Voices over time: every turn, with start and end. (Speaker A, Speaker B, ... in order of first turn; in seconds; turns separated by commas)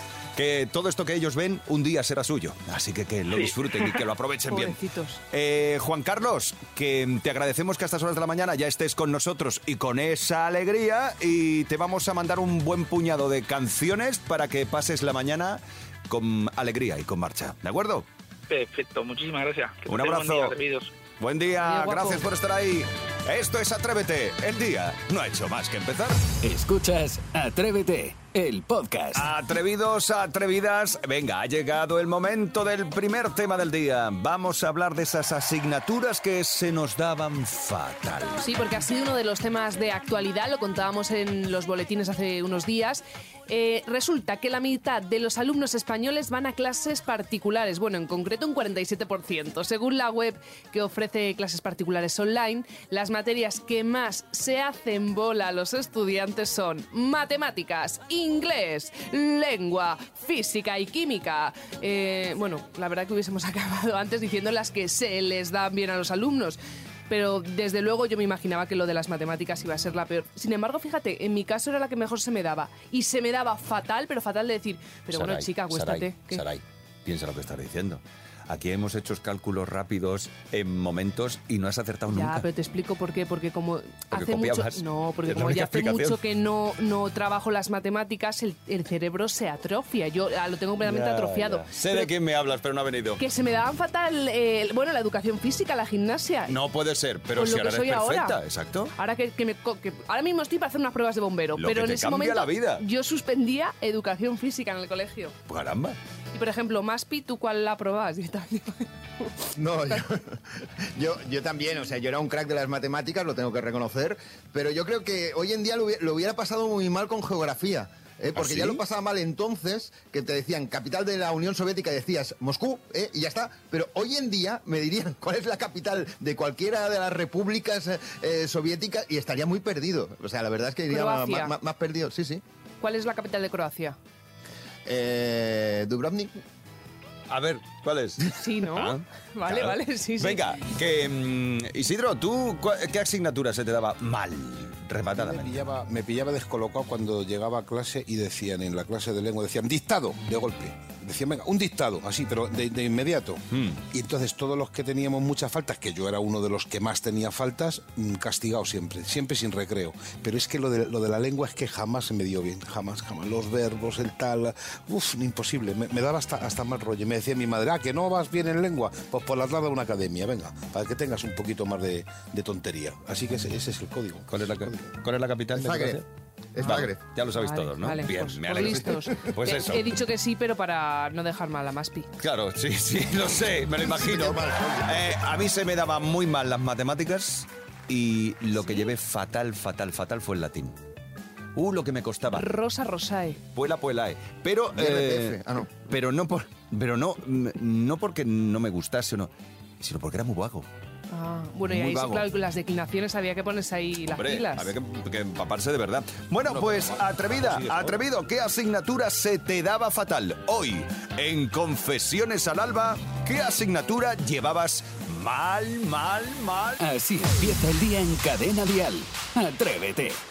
Speaker A: 0.3-4.8, Speaker B: 3.4-3.9, Speaker C: 4.5-5.2, Speaker A: 5.3-18.1, Speaker B: 18.5-20.9, Speaker A: 19.9-20.6, Speaker A: 21.2-26.2, Speaker C: 21.6-22.2, Speaker D: 26.4-29.3, Speaker A: 29.1-38.4, Speaker C: 38.4-76.4, Speaker A: 75.1-82.4, Speaker C: 82.1-92.1, Speaker A: 84.1-86.2, Speaker A: 90.8-93.2, Speaker C: 93.2-96.6, Speaker A: 96.5-98.9, Speaker C: 97.3-98.4, Speaker C: 99.0-105.3, Speaker A: 101.6-102.8, Speaker A: 105.5-106.0, Speaker C: 106.3-109.3, Speaker E: 109.5-110.4, Speaker E: 110.9-132.4, Speaker A: 118.4-118.7, Speaker C: 130.9-131.5, Speaker C: 132.8-134.0, Speaker E: 134.8-136.3, Speaker A: 137.3-145.7, Speaker C: 138.3-140.6, Speaker F: 145.1-175.0, Speaker A: 153.5-153.8, Speaker A: 174.3-176.0, Speaker E: 175.6-176.0, Speaker E: 176.5-177.0, Speaker A: 176.6-180.0, Speaker C: 177.3-182.1, Speaker A: 182.2-190.8, Speaker E: 183.8-185.2, Speaker A: 191.5-192.5, Speaker C: 192.3-193.4, Speaker A: 193.5-200.7, Speaker E: 194.8-195.7, Speaker C: 201.1-204.7, Speaker A: 201.7-202.2, Speaker A: 204.1-216.8, Speaker F: 206.4-208.0, Speaker D: 216.8-220.2